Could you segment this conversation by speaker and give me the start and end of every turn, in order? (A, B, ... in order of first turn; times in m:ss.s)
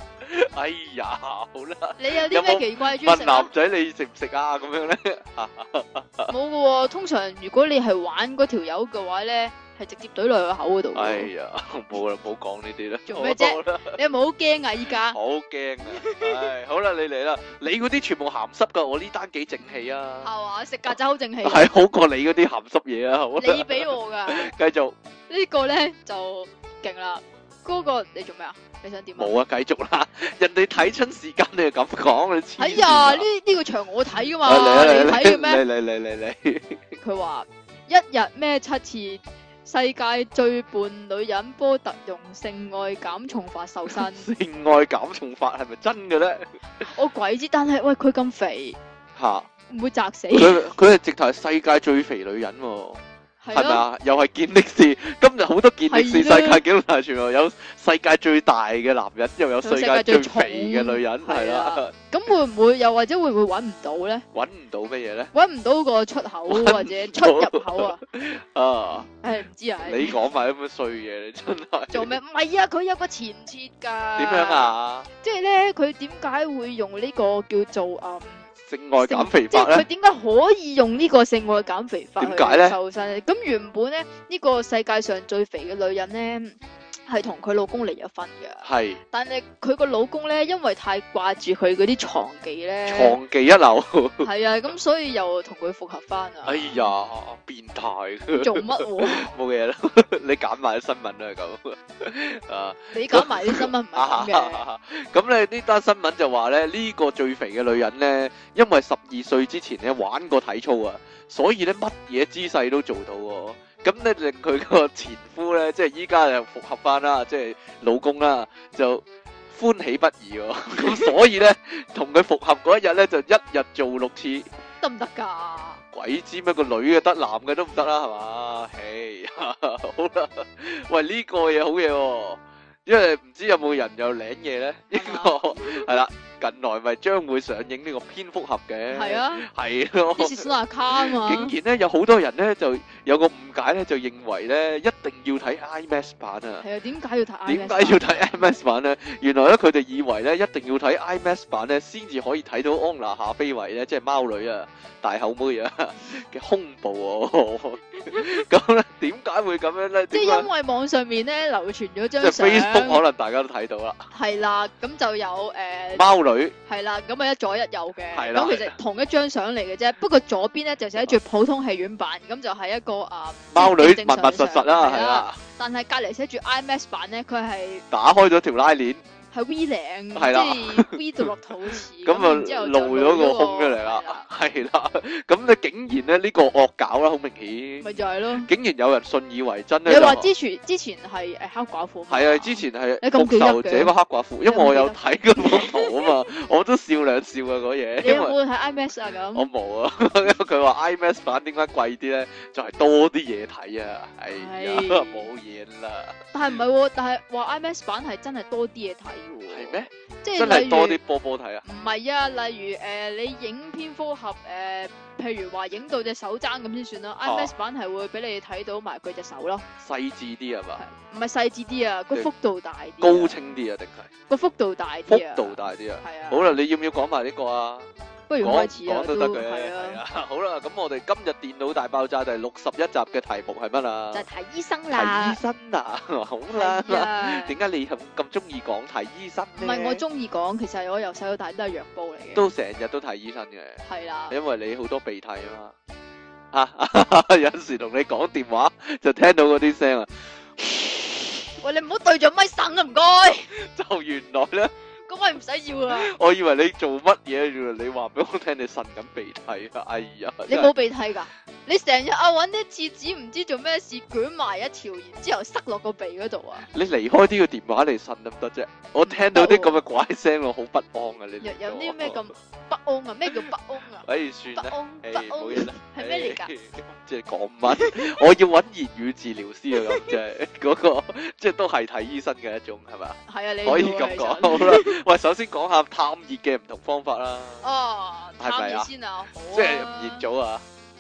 0:00.2-0:06.3 A
0:02.0-0:03.5 B
0:06.3-0:11.3 B
0:11.0-0:14.0 A
0:13.1-0:15.2 B
0:15.1-0:20.3 A
0:15.9-0:16.5 B
0:20.2-0:21.7 B
0:21.4-0:25.0 A
0:23.4-0:24.5 B
0:25.3-0:29.4 B
0:29.2-0:33.2 A
0:32.6-0:35.6 B
0:34.4-0:37.0 A
0:37.0-0:44.3 B
0:43.9-0:46.6 A
0:46.8-0:48.8 B
0:49.2-0:49.5 A
0:49.7-0:50.7 B
0:50.3-0:53.0 A
0:53.4-0:53.8 B
0:53.5-1:01.9 A
0:55.9-0:56.6 B
0:59.6-1:04.2 B
1:04.3-1:05.3 A
1:05.3-1:08.0 B
1:06.5-1:09.1 A
1:09.2-1:10.2 B
1:09.8-1:12.1 A
1:11.9-1:18.5 B
1:14.2-1:15.1 A
1:18.7-1:19.9 A
1:19.0-1:33.2 B
1:22.2-1:22.8 A
1:28.6-1:29.0 A
1:32.8-1:34.3 A
1:34.2-1:36.9 B
1:36.4-2:04.5 A
1:38.3-1:39.3 B
1:42.9-1:44.6 B
2:00.8-2:01.1 B
2:04.8-2:05.8 B
2:05.9-2:26.6 A
2:14.9-2:15.9 B
2:18.9-2:19.5 B
2:20.2-2:21.5 B
2:26.6-2:28.3 B
2:27.5-2:40.5 A
2:40.1-2:43.0 B
2:42.2-2:44.0 A
2:44.1-2:46.1 B
2:45.9-2:46.6 A
2:46.7-2:57.8 B
2:48.1-2:48.8 A
2:53.5-2:55.4 A
2:57.9-2:59.0 A
2:59.3-3:04.3 B
3:00.2-3:01.3 A
3:02.0-3:10.3 A
3:07.8-3:08.5 B
3:09.9-3:13.9 B
3:12.1-3:18.4 A
3:14.4-3:16.1 B
3:18.0-3:19.5 B
3:19.3-3:26.2 A
3:24.3-3:25.3 B
3:26.3-3:31.0 B
3:29.5-3:31.6 A
3:31.6-3:39.7 B
3:37.2-3:37.5 A
3:39.8-3:40.8 A
3:40.8-3:43.4 B
3:43.0-3:44.1 A
3:44.3-3:46.5 B
3:45.1-3:47.9 A
3:48.3-3:50.0 B
3:48.4-3:54.3 A
3:54.1-3:55.4 B
3:54.9-4:00.0 A
3:56.5-3:57.6 B
3:59.6-4:02.5 B
4:02.4-4:05.8 A
4:03.8-4:04.4 B
4:06.5-4:11.4 A
4:11.6-4:13.5 B
4:13.5-4:14.7 A
4:15.1-4:16.1 B
4:15.9-4:20.7 A
4:20.5-4:26.7 B
4:26.6-4:32.2 A
4:29.0-4:29.8 B
4:31.4-4:36.5 B
4:34.0-4:47.7 A
4:37.7-4:38.1 B
4:39.8-4:40.1 B
4:43.3-4:45.0 B
4:47.6-4:50.2 B
4:48.4-4:48.9 A
4:49.5-4:50.6 A